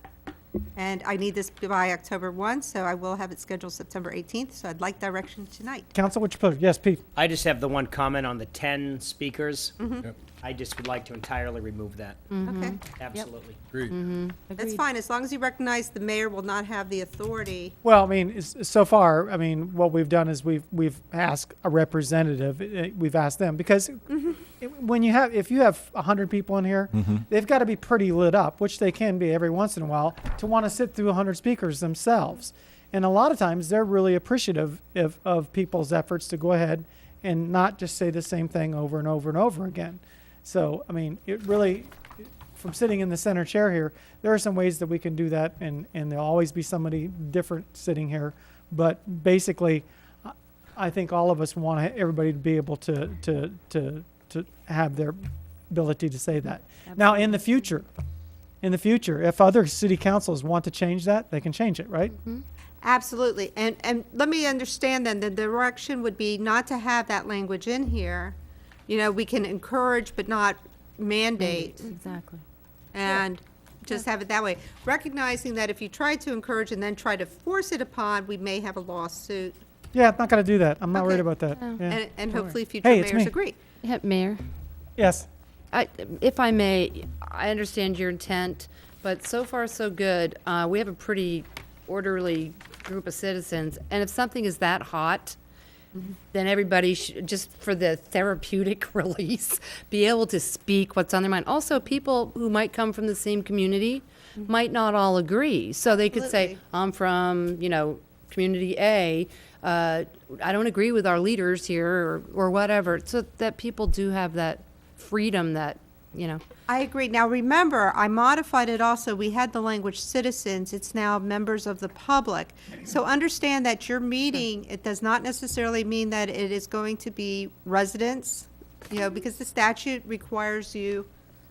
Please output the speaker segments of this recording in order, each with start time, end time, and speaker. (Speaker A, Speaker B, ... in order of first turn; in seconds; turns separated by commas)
Speaker A: 0.8-5.9, Speaker B: 5.9-7.0, Speaker C: 7.2-9.7, Speaker A: 9.8-10.1, Speaker C: 10.3-12.2, Speaker D: 12.3-13.3, Speaker A: 12.4-12.8, Speaker C: 13.0-13.6, Speaker D: 13.9-14.8, Speaker A: 14.6-17.7, Speaker B: 17.8-55.2, Speaker A: 24.1-24.4, Speaker B: 55.7-57.9, Speaker D: 56.9-57.4, Speaker B: 58.6-62.1, Speaker D: 62.2-62.4, Speaker A: 62.8-68.3, Speaker A: 68.9-71.9, Speaker D: 71.4-72.4, Speaker A: 72.9-79.6, Speaker B: 79.9-83.3, Speaker A: 80.9-81.2, Speaker A: 81.9-83.5, Speaker D: 83.8-84.4, Speaker B: 85.0-85.3, Speaker D: 85.7-95.4, Speaker D: 96.3-116.4, Speaker A: 106.1-106.6, Speaker A: 116.7-131.1